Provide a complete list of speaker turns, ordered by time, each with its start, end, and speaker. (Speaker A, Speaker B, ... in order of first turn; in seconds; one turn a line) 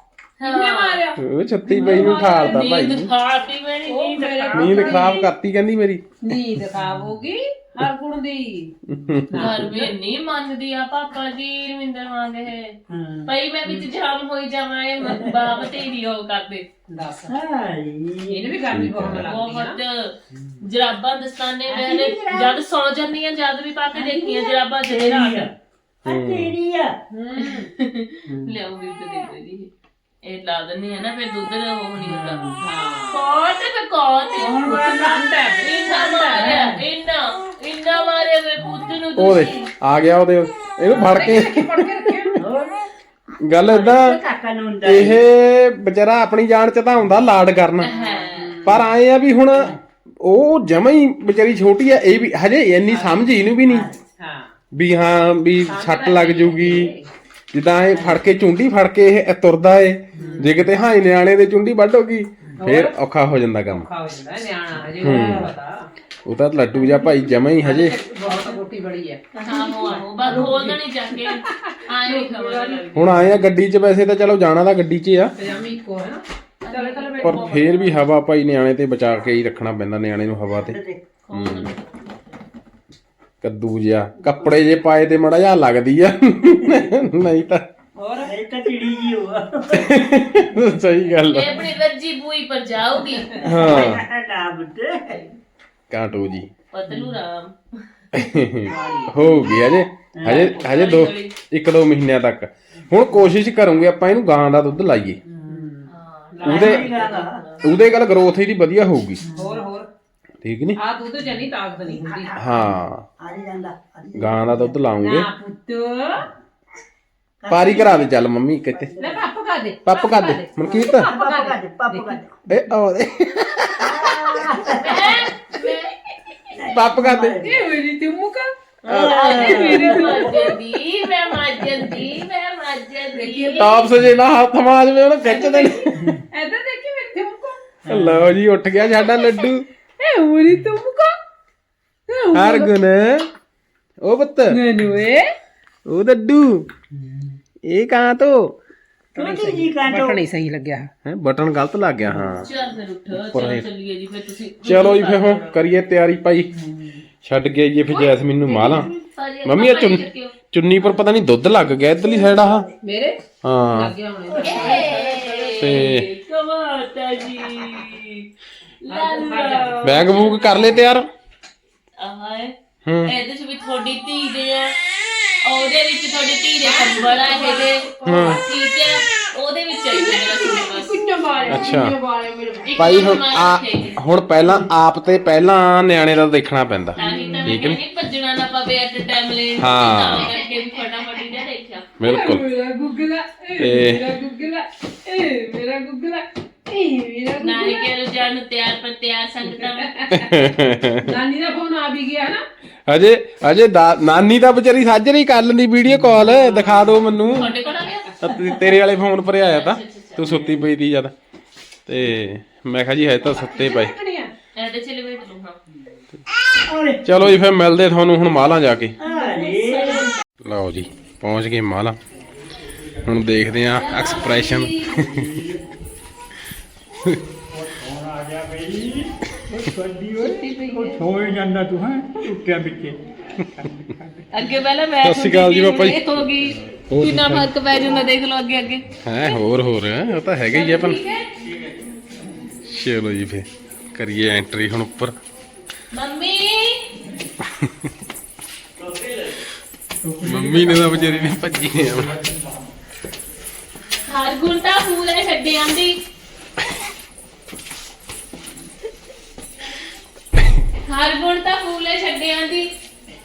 Speaker A: 0.4-1.0
Speaker B: 0.4-3.0
Speaker C: 1.2-3.1
Speaker A: 1.8-4.5
Speaker B: 3.8-5.3
Speaker D: 4.2-5.2
Speaker C: 4.5-6.0
Speaker B: 6.2-8.7
Speaker D: 6.8-7.2
Speaker C: 8.9-9.7
Speaker B: 9.3-9.9
Speaker A: 9.3-16.6
Speaker D: 12.9-13.3
Speaker D: 15.0-15.6
Speaker B: 16.9-17.4
Speaker D: 17.3-19.1
Speaker B: 18.3-19.8
Speaker C: 18.7-19.3
Speaker A: 19.2-25.5
Speaker D: 20.3-20.6
Speaker D: 21.7-22.6
Speaker B: 24.0-24.3
Speaker D: 24.8-25.5
Speaker D: 26.0-26.9
Speaker C: 26.1-26.6
Speaker B: 27.1-27.7
Speaker A: 27.4-29.7
Speaker D: 28.3-28.5
Speaker A: 30.2-32.4
Speaker D: 32.0-32.6
Speaker B: 32.6-33.3
Speaker A: 33.1-39.7
Speaker D: 34.4-35.2
Speaker B: 34.6-36.7
Speaker D: 36.4-36.8
Speaker C: 39.1-42.1
Speaker B: 41.0-42.4
Speaker D: 42.4-42.9
Speaker C: 43.4-44.2
Speaker D: 43.6-45.2
Speaker C: 44.8-47.9
Speaker A: 47.8-48.6
Speaker B: 47.8-48.9
Speaker C: 48.6-53.9
Speaker D: 49.5-49.8
Speaker B: 52.9-54.5
Speaker D: 53.6-54.0
Speaker C: 54.7-56.9
Speaker B: 55.6-57.1
Speaker C: 57.5-63.9
Speaker D: 57.9-58.2
Speaker D: 60.1-60.6
Speaker B: 60.2-60.5
Speaker B: 62.6-62.9
Speaker B: 63.7-65.9
Speaker D: 65.0-65.5
Speaker C: 65.0-65.5
Speaker C: 66.2-68.0
Speaker B: 66.8-73.0
Speaker A: 69.4-73.3
Speaker D: 69.9-70.7
Speaker C: 72.9-75.3
Speaker B: 75.3-78.0
Speaker A: 76.6-78.1
Speaker C: 77.2-80.8
Speaker D: 80.5-81.0
Speaker A: 81.3-82.4
Speaker C: 81.3-81.7
Speaker C: 83.4-87.7
Speaker B: 88.0-88.4
Speaker D: 88.2-90.0
Speaker C: 89.7-91.7
Speaker A: 91.2-93.7
Speaker D: 93.4-95.3
Speaker C: 93.4-94.0
Speaker C: 95.9-96.5
Speaker A: 96.7-97.8
Speaker D: 96.9-97.2
Speaker C: 98.1-105.2
Speaker D: 98.6-100.7
Speaker A: 100.5-101.3
Speaker D: 105.3-105.7
Speaker B: 105.5-107.2
Speaker A: 105.9-107.8
Speaker C: 106.4-106.9
Speaker D: 106.4-107.4
Speaker C: 107.6-109.2
Speaker D: 109.2-109.6
Speaker B: 109.3-109.9
Speaker C: 110.4-110.8
Speaker B: 110.8-112.3
Speaker D: 111.2-114.8
Speaker C: 112.4-113.0
Speaker C: 114.2-115.3
Speaker B: 115.0-116.2
Speaker D: 117.4-119.2
Speaker C: 117.5-119.0
Speaker B: 119.0-122.2
Speaker C: 119.8-121.1
Speaker D: 120.7-122.4
Speaker C: 122.5-124.1
Speaker D: 123.8-125.3
Speaker A: 124.7-125.9
Speaker D: 126.5-127.6
Speaker C: 126.7-127.4
Speaker B: 127.4-128.5
Speaker D: 128.9-130.6
Speaker A: 128.9-133.9
Speaker C: 128.9-129.8
Speaker B: 129.3-130.4
Speaker D: 131.6-131.9
Speaker B: 133.2-133.8
Speaker C: 133.6-136.2
Speaker A: 135.3-135.8
Speaker B: 136.3-137.8
Speaker D: 137.8-138.4
Speaker C: 137.9-139.6
Speaker B: 140.0-141.1
Speaker B: 142.1-142.7
Speaker C: 142.3-143.3
Speaker C: 144.0-144.6
Speaker B: 144.5-145.3
Speaker C: 145.9-146.7
Speaker D: 146.9-147.3
Speaker C: 147.6-148.5
Speaker D: 149.1-150.2
Speaker B: 149.2-150.9
Speaker C: 151.0-152.5
Speaker A: 152.3-155.6
Speaker C: 153.1-153.7
Speaker C: 154.6-156.5
Speaker D: 156.5-157.0
Speaker C: 157.2-158.9
Speaker A: 158.4-160.3
Speaker C: 159.4-162.7
Speaker B: 162.8-163.2
Speaker C: 163.4-163.9
Speaker B: 163.7-165.7
Speaker D: 164.4-165.0
Speaker A: 164.4-168.3
Speaker C: 165.6-166.1
Speaker A: 168.8-170.9
Speaker B: 168.9-170.0
Speaker C: 169.8-171.1
Speaker A: 172.0-172.5
Speaker C: 172.8-173.1
Speaker A: 173.0-174.8
Speaker A: 175.4-181.7
Speaker B: 176.6-178.4
Speaker C: 178.0-178.4
Speaker B: 179.9-183.0
Speaker C: 181.5-182.0
Speaker A: 182.6-183.9
Speaker C: 182.8-187.8
Speaker B: 187.0-187.6
Speaker A: 187.0-191.9
Speaker C: 189.6-190.3
Speaker C: 192.0-192.4
Speaker B: 192.0-197.9
Speaker C: 193.6-194.1
Speaker A: 197.4-199.9
Speaker B: 199.5-200.3
Speaker C: 200.1-201.2
Speaker B: 201.0-202.4
Speaker C: 202.9-207.5
Speaker B: 206.2-206.9
Speaker A: 207.3-208.1
Speaker C: 208.2-211.1
Speaker A: 209.4-210.3
Speaker C: 211.8-213.9
Speaker B: 213.3-214.3
Speaker A: 214.6-215.6
Speaker D: 216.7-217.3
Speaker C: 217.0-219.0
Speaker D: 219.0-220.1
Speaker A: 219.1-220.2
Speaker C: 220.4-222.0
Speaker E: 222.7-223.4
Speaker C: 223.0-225.2
Speaker A: 223.7-225.1
Speaker E: 225.0-225.6
Speaker E: 227.5-233.0
Speaker A: 230.2-231.0
Speaker E: 233.5-234.2
Speaker A: 234.3-239.4
Speaker C: 235.0-237.5
Speaker C: 239.0-241.0
Speaker A: 240.5-241.3
Speaker C: 242.6-245.1
Speaker A: 245.9-246.8
Speaker E: 250.0-252.7
Speaker C: 250.2-252.2
Speaker A: 254.1-255.9
Speaker A: 260.9-262.7